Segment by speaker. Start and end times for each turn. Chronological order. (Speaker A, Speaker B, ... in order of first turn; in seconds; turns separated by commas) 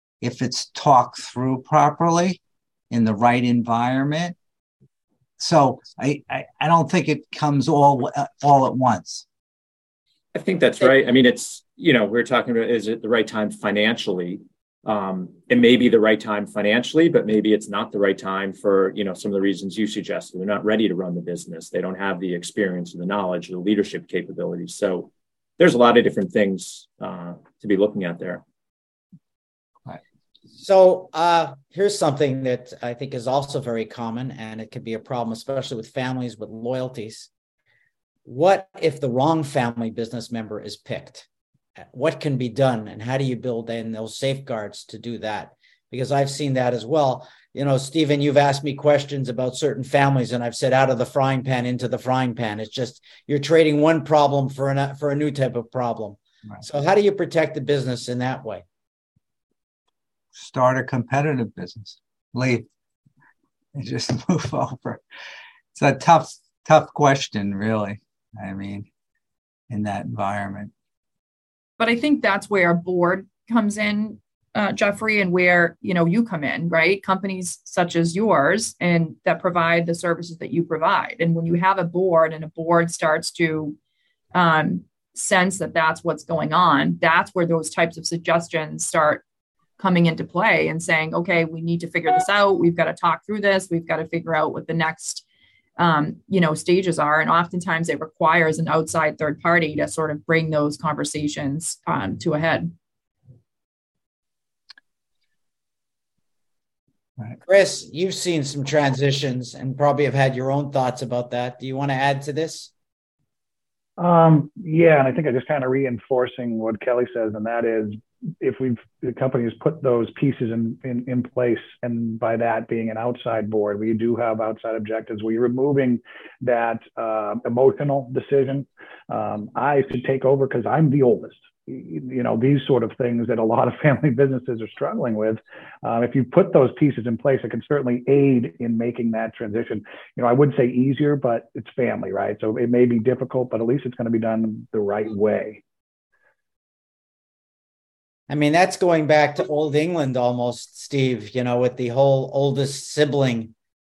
Speaker A: 0.2-2.4, Speaker A: 2.9-4.3, Speaker A: 5.4-9.2, Speaker B: 10.3-28.4, Speaker C: 30.6-37.3, Speaker C: 38.2-41.2, Speaker C: 41.8-58.6, Speaker A: 60.4-62.6, Speaker A: 63.8-65.0, Speaker A: 65.7-68.9, Speaker A: 69.7-70.7, Speaker D: 71.8-83.8, Speaker D: 84.3-89.2, Speaker D: 89.8-95.2, Speaker D: 95.8-102.7, Speaker C: 107.4-112.7, Speaker E: 114.0-145.6, Speaker C: 148.3-153.5